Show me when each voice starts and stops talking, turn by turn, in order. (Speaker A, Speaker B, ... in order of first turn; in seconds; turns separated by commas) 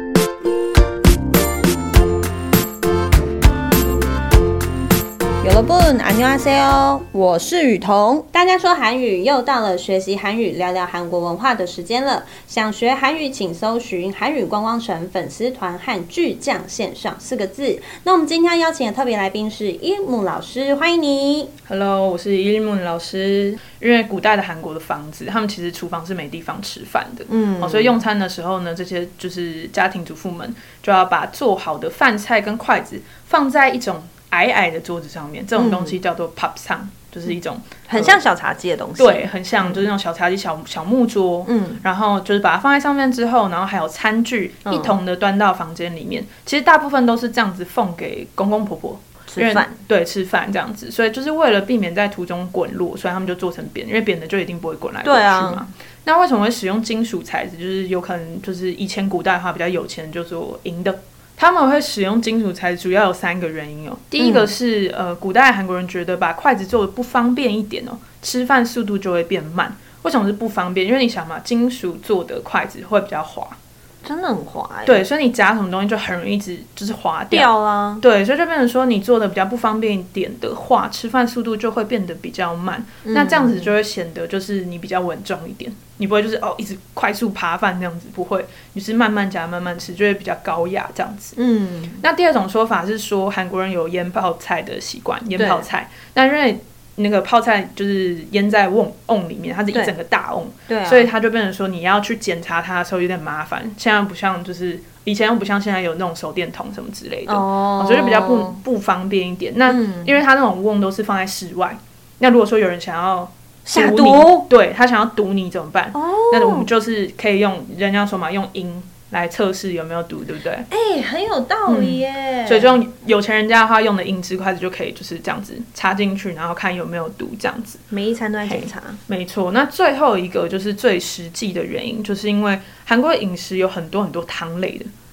Speaker A: 5.4-21.5, Speaker B: 21.7-38.2, Speaker A: 27.3-28.0, Speaker A: 35.5-36.0, Speaker A: 37.9-39.8, Speaker B: 39.0-73.6, Speaker A: 41.5-41.8, Speaker A: 44.6-44.9, Speaker A: 49.3-49.8, Speaker A: 55.0-55.6, Speaker A: 64.2-64.5, Speaker A: 74.0-75.0, Speaker B: 74.8-91.3, Speaker A: 77.3-78.0, Speaker A: 83.0-83.7, Speaker A: 91.3-92.0, Speaker B: 92.0-120.7, Speaker A: 95.4-95.7, Speaker A: 100.7-101.1, Speaker A: 107.3-108.6, Speaker A: 109.7-110.1, Speaker A: 113.7-114.5, Speaker A: 115.9-116.7, Speaker A: 120.7-122.8, Speaker B: 121.7-127.8, Speaker A: 127.9-129.0, Speaker B: 128.4-134.9